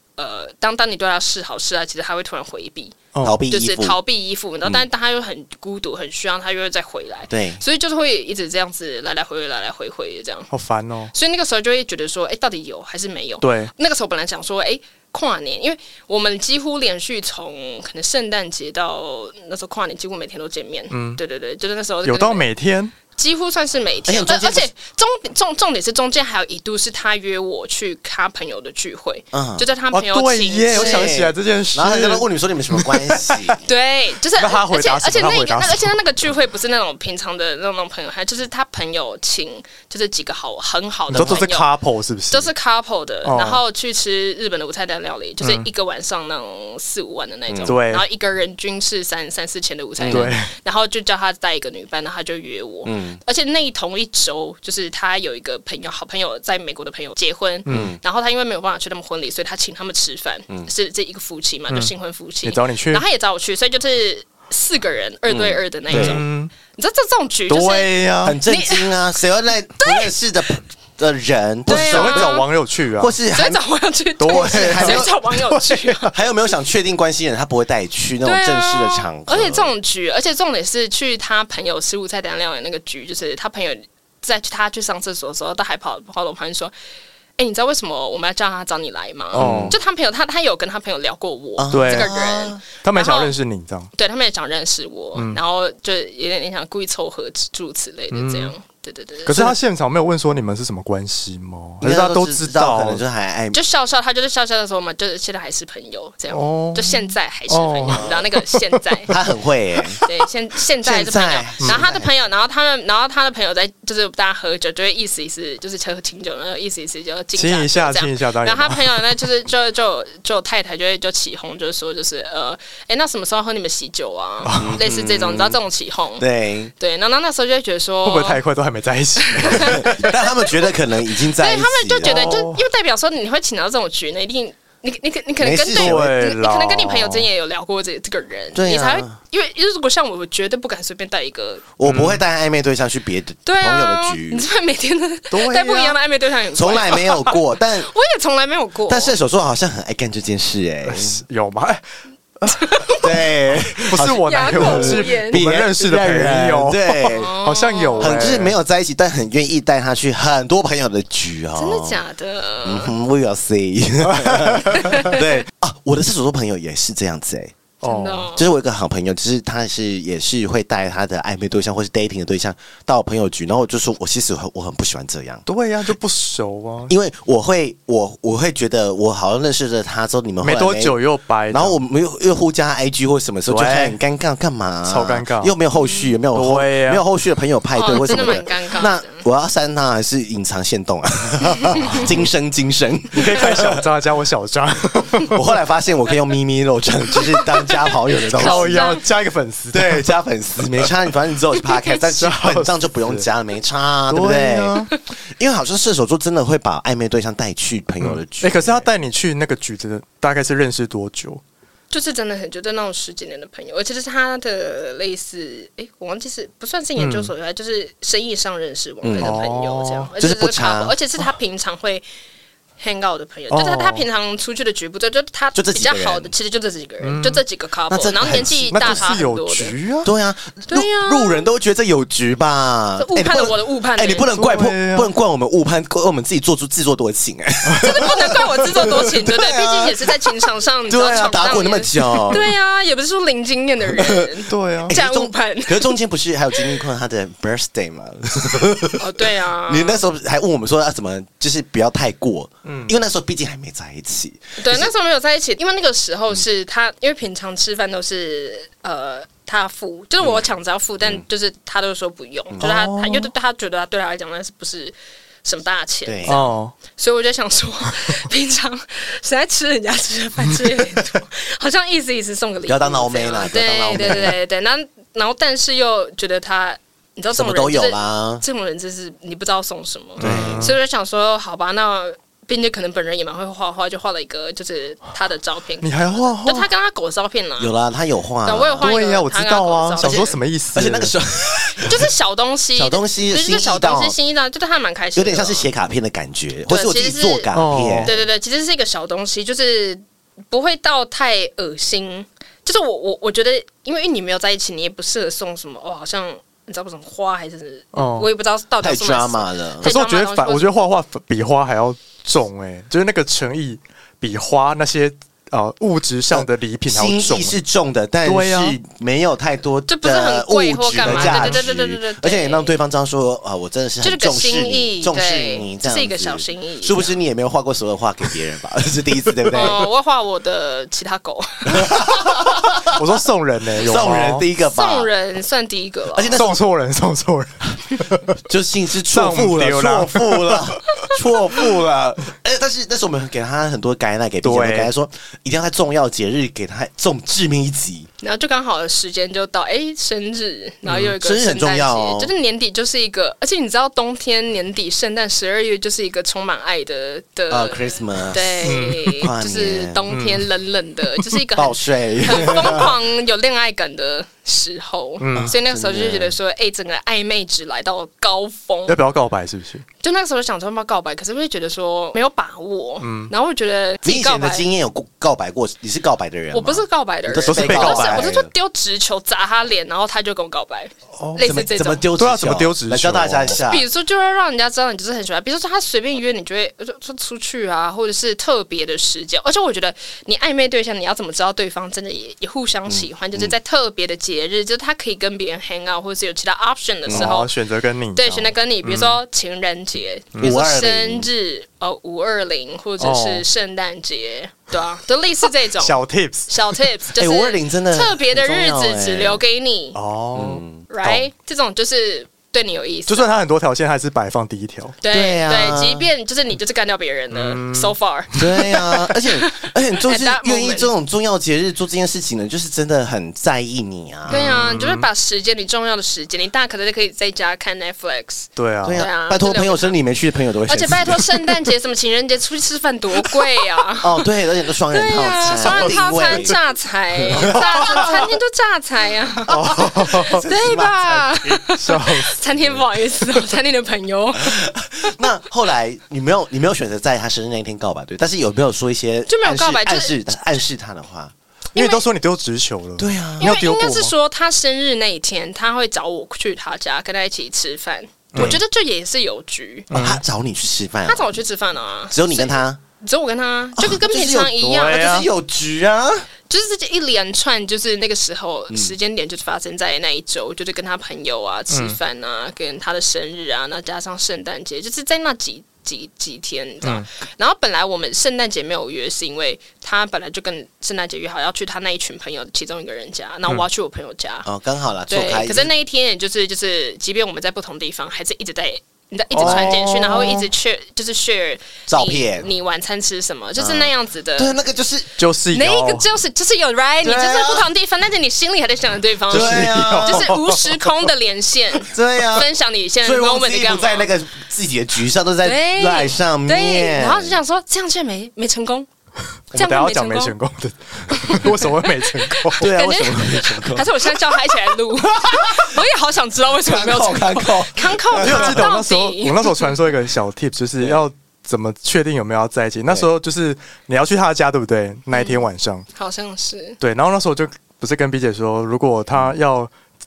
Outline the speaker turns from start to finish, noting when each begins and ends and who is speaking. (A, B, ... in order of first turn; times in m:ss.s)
0:00.2-0:10.5 A
0:03.1-0:03.4 B
0:03.2-0:04.0 C
0:07.3-0:07.6 C
0:10.5-0:11.1 B
0:11.1-0:22.4 A
0:13.4-0:13.7 B
0:20.9-0:21.2 B
0:22.0-0:23.0 B
0:23.2-0:31.2 A
0:24.1-0:24.7 C
0:29.3-0:29.7 C
0:29.9-0:33.6 B
0:30.7-0:33.6 C
0:33.6-0:41.7 A
0:34.4-0:36.0 B
0:41.1-0:41.5 C
0:41.1-0:42.5 B
0:42.3-1:09.1 A
0:43.2-0:43.6 B
0:45.4-0:45.7 B
0:47.5-0:47.8 C
0:47.6-0:48.0 B
0:50.0-0:50.3 C
0:50.1-0:50.5 B
0:52.8-0:53.2 C
0:57.7-0:57.9 B
0:57.7-0:58.0 C
1:01.7-1:01.9 B
1:02.4-1:03.0 B
1:05.3-1:06.2 C
1:05.9-1:06.5 B
1:07.5-1:08.4 B
1:08.2-1:12.4 C
1:09.8-1:10.1 A
1:11.7-1:13.2 B
1:11.7-1:12.5 A
1:13.0-1:13.6 C
1:13.3-1:16.1 A
1:14.2-1:16.1 B
1:14.3-1:15.1 C
1:16.0-1:19.7 C
1:18.2-1:26.7 A
1:27.4-1:33.3 A
1:29.3-1:29.8 C
1:29.4-1:29.8 B
1:31.6-1:32.6 C
1:31.7-1:32.1 B
1:32.8-1:33.9 B
1:34.0-1:39.5 A
1:35.2-1:35.4 B
1:38.1-1:38.5 B
1:39.3-1:43.0 B
1:41.8-1:43.6 C
1:43.5-1:49.2 A
1:46.3-1:49.0 B
1:47.9-1:48.3 C
1:49.1-1:50.0 C
1:50.0-2:06.3 A
1:50.8-1:52.1 C
1:57.4-1:59.2 B
2:04.4-2:04.8 B
2:04.5-2:05.6 C
2:06.2-2:06.7 C
2:06.8-2:08.4 A
2:08.0-2:10.1 B
2:09.2-2:21.6 A
2:09.4-2:12.5 C
2:12.0-2:12.6 B
2:15.4-2:16.1 C
2:15.8-2:17.3 B
2:18.5-2:19.2 C
2:21.8-2:24.5 C
2:21.8-2:22.2 B
2:23.5-2:29.2 A
2:25.3-2:26.0 B
2:26.5-2:27.9 C
2:28.9-2:31.2 C
2:30.8-2:31.8 B
2:32.4-2:32.9 B
2:32.5-2:33.2 A
2:33.0-2:37.4 C
2:33.9-2:38.6 B
2:34.0-2:35.5 A
2:37.1-2:38.4 A
2:38.0-2:42.0 C
2:41.6-2:43.0 A
2:42.6-2:47.6 C
2:44.0-2:45.2 B
2:47.8-2:48.3 B
2:47.8-2:48.5 A
2:48.4-2:55.4 C
2:55.5-2:56.9 B
2:56.9-3:01.0 C
3:00.4-3:01.8 B
3:01.5-3:13.8 C
3:03.5-3:04.0 B
3:04.8-3:05.5 B
3:05.8-3:06.1 A
3:06.3-3:07.0 B
3:07.7-3:09.2 A
3:08.1-3:08.4 B
3:11.8-3:12.1 B
3:13.1-3:15.4 B
3:15.3-3:19.0 C
3:17.3-3:19.0 A
3:18.4-3:20.0 B
3:19.7-3:28.9 C
3:22.1-3:23.3 B
3:24.1-3:24.9 B
3:28.0-3:31.4 B
3:31.9-3:42.0 A
3:37.0-3:37.3 B
3:39.0-3:39.4 C
3:39.2-3:40.1 B
3:40.2-3:41.0 C
3:42.8-3:49.8 A
3:43.5-3:44.1 B
3:45.6-3:46.3 C
3:47.0-3:47.4 B
3:47.9-3:49.2 C
3:48.7-3:50.1 B
3:50.0-4:02.5 C
3:50.7-3:51.5 A
3:53.0-3:54.3 A
3:54.3-3:55.1 B
3:57.6-3:58.1 B
3:57.8-4:06.0 A
4:03.9-4:04.3 C
4:04.5-4:05.0 B
4:04.9-4:14.9 C
4:06.6-4:06.8 A
4:09.0-4:10.0 A
4:12.6-4:13.0 B
4:14.6-4:47.7 A
4:22.6-4:23.3 B
4:26.1-4:26.4 C
4:26.3-4:26.8 B
4:32.7-4:34.4 C
4:37.3-4:38.4 C
4:40.2-4:40.8 B
4:40.2-4:40.7 C
4:45.8-4:46.7 B
4:47.6-4:48.9 C
4:48.4-4:50.3 A
4:48.8-4:51.1 B
4:50.0-4:52.1 C
4:51.8-4:55.7 A
4:52.8-4:54.2 C
4:55.2-4:58.2 C
4:56.7-4:57.5 A
4:57.5-4:58.2 B
4:58.0-5:10.7 A
5:07.9-5:08.3 B
5:08.8-5:09.9 C
5:09.8-5:17.6 B
5:16.3-5:29.9 C
5:18.2-5:18.8 B
5:19.9-5:22.8 A
5:21.0-5:21.7 B
5:24.0-5:27.2 A
5:29.4-5:29.7 B
5:29.5-5:32.4 A
5:31.7-5:33.0 C
5:32.9-5:34.5 B
5:33.8-5:35.1 C
5:34.7-5:36.4 A
5:36.1-5:36.6 C
5:36.3-5:38.4 B
5:38.4-5:48.1 C
5:39.1-5:41.1 B
5:44.4-5:44.9 B
5:48.2-6:09.0 A
5:50.9-5:51.2 B
5:51.2-5:52.3 C
5:57.5-6:00.0 C
5:58.6-5:59.3 B
6:00.1-6:00.4 B
6:01.6-6:03.0 C
6:05.2-6:05.6 B
6:05.3-6:06.4 C
6:08.9-6:09.8 B
6:10.0-6:14.7 A
6:13.0-6:13.3 B
6:14.0-6:18.5 C
6:16.5-6:22.1 A
6:17.4-6:18.3 B
6:21.2-6:21.5 B
6:21.4-6:23.9 C
6:22.2-6:23.6 B
6:23.6-6:37.5 A
6:32.9-6:33.6 C
6:37.1-6:37.4 C
6:37.1-6:39.2 B
6:38.2-6:50.0 A
6:40.4-6:41.3 C
6:43.0-6:43.4 B
6:45.8-6:46.8 B
6:47.2-6:49.4 C
6:50.0-6:50.6 B
6:50.4-6:51.2 C
6:50.9-6:53.4 A
6:53.1-6:55.0 B
6:55.0-7:00.9 A
6:55.1-6:56.1 C
6:57.3-6:58.4 B
6:58.4-7:04.5 C
7:04.3-7:05.1 B
7:04.3-7:10.0 A
7:08.6-7:09.1 B
7:08.8-7:11.5 C
7:10.7-7:14.3 A
7:14.0-7:16.6 C
7:14.9-7:19.6 A
7:15.4-7:16.5 B
7:17.2-7:18.3 C
7:17.4-7:18.2 B
7:19.5-7:20.4 B
7:19.5-7:21.7 C
7:20.3-7:25.2 A
7:21.8-7:22.4 B
7:22.6-7:22.8 C
7:24.4-7:31.3 C
7:29.3-7:30.2 A
7:31.8-7:32.0 A
7:31.8-7:34.1 B
7:33.0-7:33.6 C
7:33.4-7:39.9 A
7:38.3-7:38.6 B
7:39.9-7:40.2 B
7:39.9-7:41.4 C
7:41.1-7:45.3 A
7:42.1-7:42.8 C
7:43.8-7:46.3 C
7:44.6-7:45.3 B
7:46.5-8:04.5 A
7:51.7-7:52.0 B
8:04.4-8:05.7 C
8:05.1-8:14.6 A
8:09.3-8:10.3 B
8:09.4-8:10.5 C
8:11.9-8:12.5 C
8:13.6-8:15.2 C
8:15.2-8:16.1 B
8:15.5-8:24.1 A
8:17.0-8:17.7 C
8:19.3-8:20.4 C
8:19.3-8:21.1 B
8:21.8-8:22.5 C
8:23.0-8:27.4 C
8:25.4-8:28.9 A
8:29.5-8:32.7 B
8:29.5-8:30.4 A
8:31.1-8:39.8 A
8:32.6-8:35.8 C
8:36.6-8:38.7 C
8:38.2-8:45.9 B
8:45.1-8:46.8 A
8:46.8-8:49.7 B